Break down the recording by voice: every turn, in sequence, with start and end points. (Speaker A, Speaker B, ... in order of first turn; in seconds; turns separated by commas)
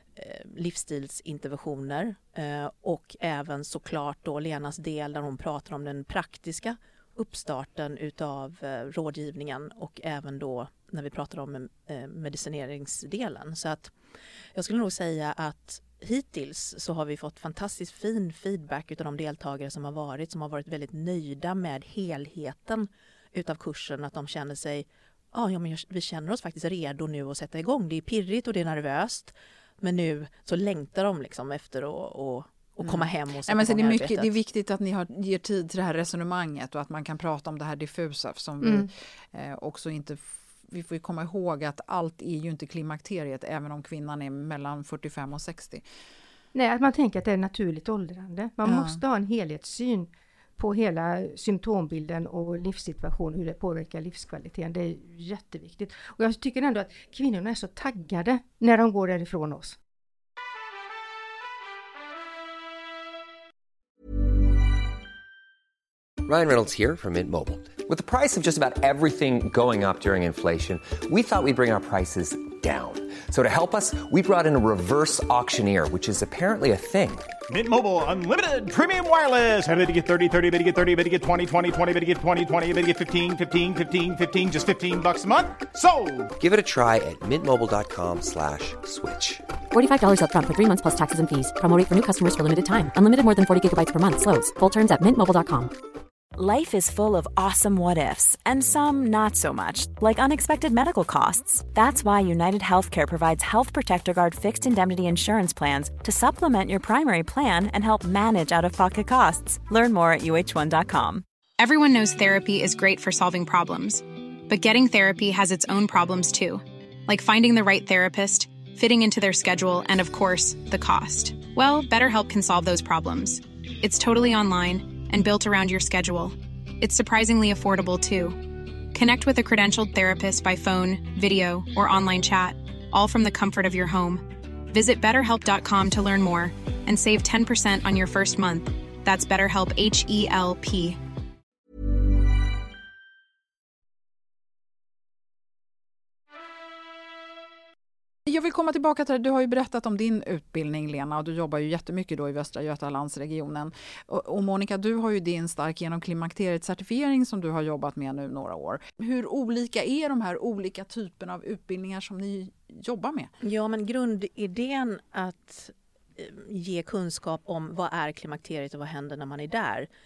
Speaker A: 0.1-13.9, Speaker A: 14.5-34.3, Speaker B: 32.8-45.8, Speaker C: 38.6-38.9, Speaker C: 46.5-59.8, Speaker B: 48.6-49.0, Speaker D: 66.2-77.3, Speaker E: 77.5-86.3, Speaker D: 86.4-89.4, Speaker F: 89.7-95.7, Speaker G: 96.3-111.2, Speaker H: 111.6-141.0, Speaker B: 148.3-163.3, Speaker A: 163.4-169.9